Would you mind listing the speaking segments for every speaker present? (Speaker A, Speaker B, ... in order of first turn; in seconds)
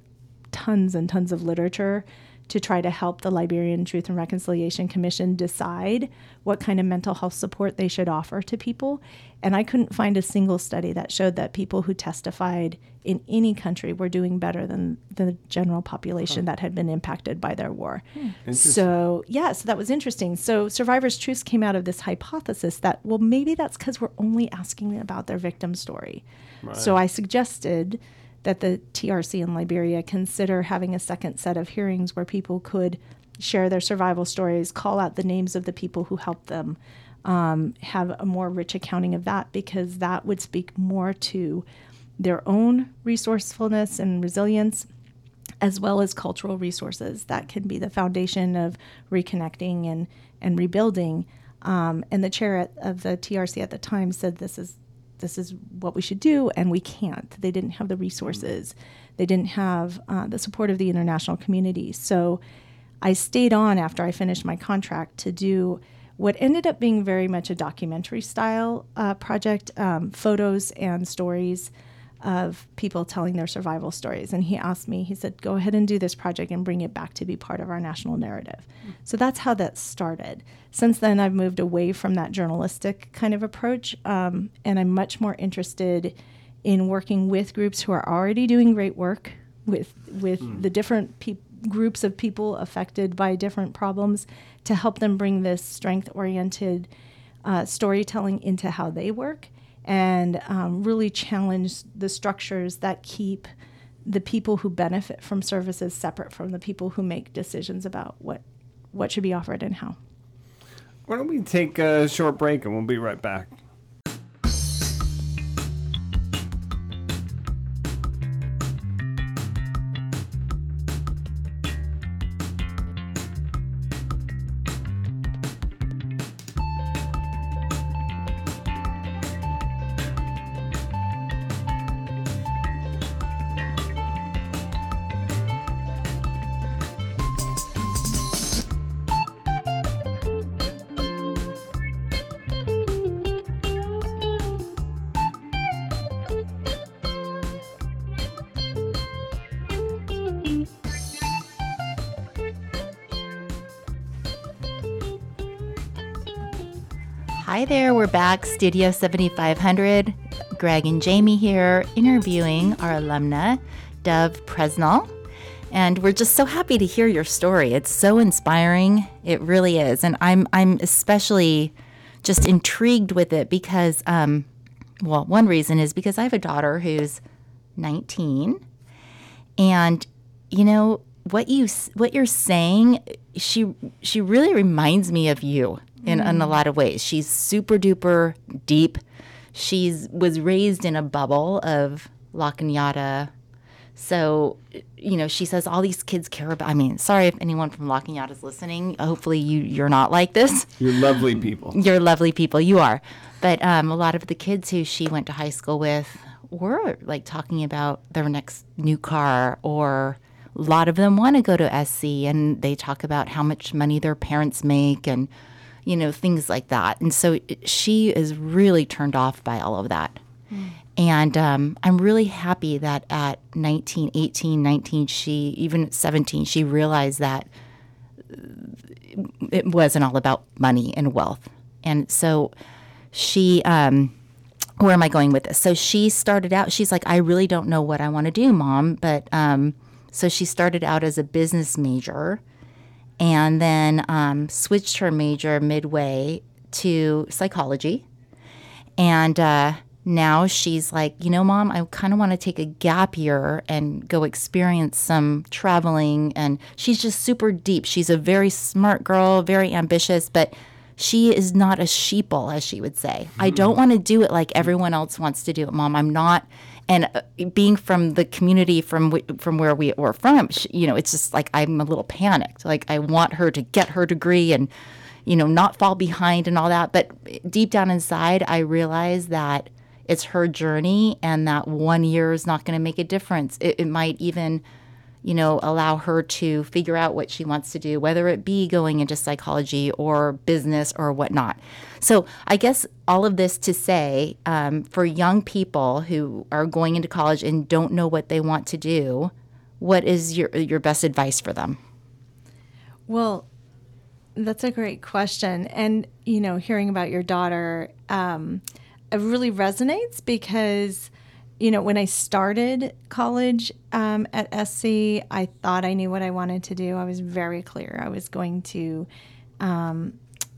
Speaker A: 0.5-41.6, 42.2-44.9, 45.6-62.4, 63.0-71.7, 72.2-96.9, 97.4-103.5, 104.1-110.0, 186.1-186.5, 220.5-220.8, 303.1-303.5, 304.4-319.1, 319.6-320.2
Speaker B: 18.4-18.9, 26.6-26.9, 111.1-113.5, 200.8-201.8
Speaker C: 157.3-165.1, 165.7-174.5, 175.0-177.2, 177.8-178.6, 179.6-189.0, 189.5-193.3, 193.9-215.3, 215.8-220.2, 220.9-227.5, 228.2-232.5, 233.1-234.1, 234.8-242.4, 243.2-248.1, 249.0-274.7, 275.2-284.6, 285.2-301.8